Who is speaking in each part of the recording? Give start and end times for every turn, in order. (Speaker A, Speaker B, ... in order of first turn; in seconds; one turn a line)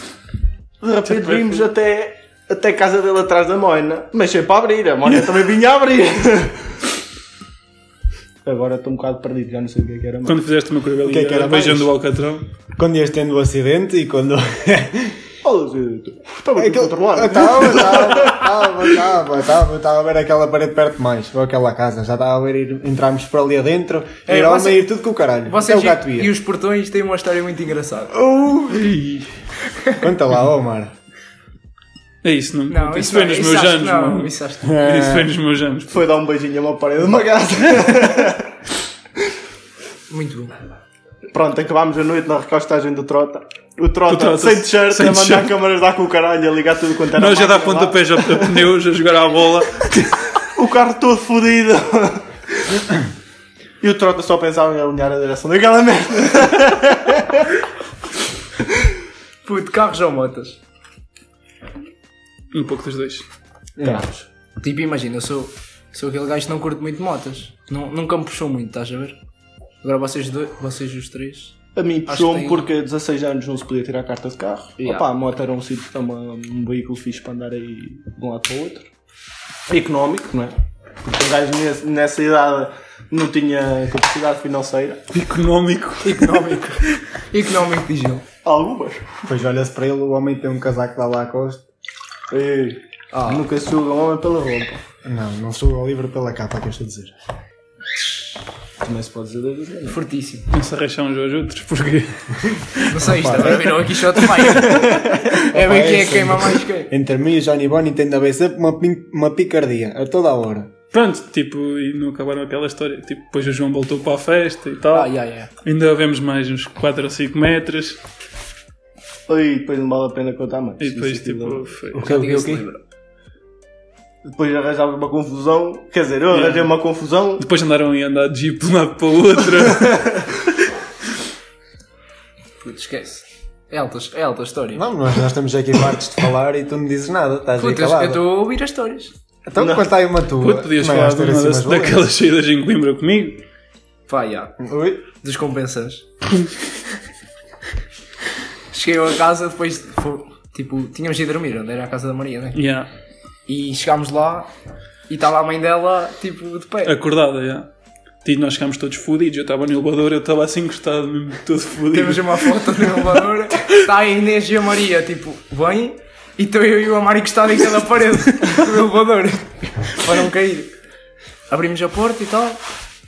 Speaker A: 0.8-6.7
Speaker B: 1.2-1.5
Speaker A: 8.4-10.4
Speaker B: 10.2-12.4
Speaker C: 11.0-11.9
Speaker C: 12.8-15.2
Speaker A: 15.4-18.7
Speaker C: 16.6-26.3
Speaker D: 24.3-24.9
Speaker D: 25.4-28.2
Speaker C: 28.1-29.2
Speaker D: 29.7-30.0
Speaker C: 30.0-30.9
Speaker B: 32.2-36.0
Speaker D: 32.7-34.8
Speaker C: 34.6-35.3
Speaker A: 35.9-38.5
Speaker D: 40.1-40.5
Speaker A: 41.3-48.5
Speaker B: 44.1-45.5
Speaker B: 47.1-50.3
Speaker A: 50.5-52.2
Speaker A: 53.8-57.5
Speaker D: 59.4-60.6
Speaker B: 62.5-63.2
Speaker A: 63.8-64.2
Speaker C: 63.8-64.0
Speaker D: 64.6-69.2
Speaker D: 69.8-72.7
Speaker A: 71.7-78.9
Speaker D: 74.8-75.1
Speaker A: 79.7-85.0
Speaker B: 85.1-86.4
Speaker D: 86.0-88.2
Speaker A: 88.4-89.1
Speaker C: 89.2-91.6
Speaker A: 92.3-94.8
Speaker D: 93.1-93.5
Speaker C: 95.0-97.1
Speaker A: 98.8-100.0
Speaker D: 99.9-100.5
Speaker B: 100.5-102.9
Speaker D: 102.8-106.9
Speaker C: 103.0-103.8
Speaker C: 105.3-110.7
Speaker B: 110.9-115.1
Speaker D: 114.9-115.5
Speaker B: 115.6-118.0
Speaker A: 119.3-121.6
Speaker B: 120.8-122.1
Speaker C: 122.0-122.6
Speaker D: 122.0-122.8
Speaker A: 124.2-127.4
Speaker B: 126.3-126.7
Speaker B: 127.4-130.2
Speaker D: 132.6-134.9
Speaker C: 134.7-138.2
Speaker D: 137.6-139.1
Speaker C: 139.4-142.1
Speaker A: 139.6-139.8
Speaker B: 140.4-143.4
Speaker D: 144.1-144.6
Speaker C: 144.6-145.0
Speaker D: 145.1-146.1
Speaker D: 148.7-152.6
Speaker B: 152.5-152.9
Speaker D: 153.5-154.5
Speaker D: 155.1-156.9
Speaker B: 156.8-157.7
Speaker B: 158.2-163.2
Speaker D: 161.9-170.7
Speaker D: 171.5-172.6